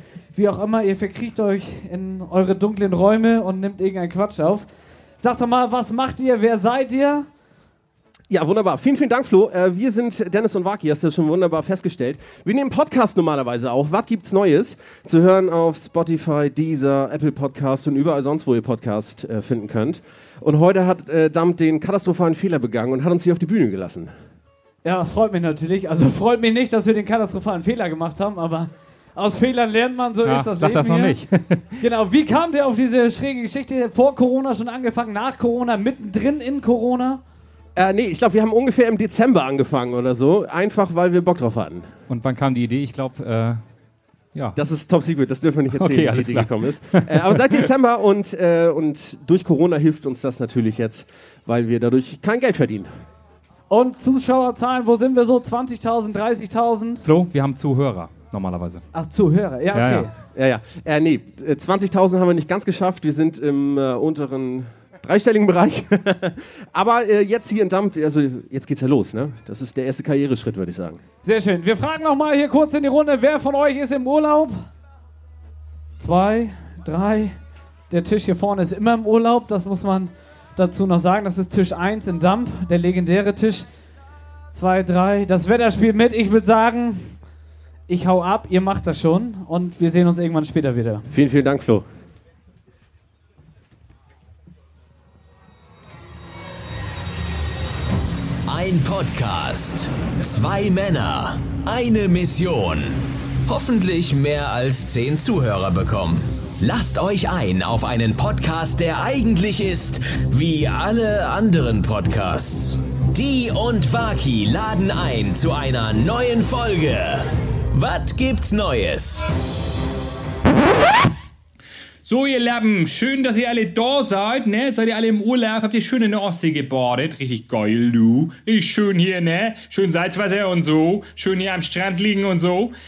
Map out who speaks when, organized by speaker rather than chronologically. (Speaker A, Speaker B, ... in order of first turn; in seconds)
Speaker A: 0.3-4.7, 5.2-7.2, 24.8-31.2, 31.8-37.2, 53.7-57.0, 58.9-60.1, 71.2-74.7, 76.0-77.3, 77.9-83.7, 84.5-87.2, 87.9-91.1
Speaker B: 8.3-24.1, 37.8-41.9, 44.5-52.9, 60.3-71.0, 91.1-91.8
Speaker C: 30.2-31.7, 42.1-43.6, 45.7-47.4, 57.0-58.8, 59.7-60.1
Speaker D: 98.5-119.3
Speaker E: 122.0-132.7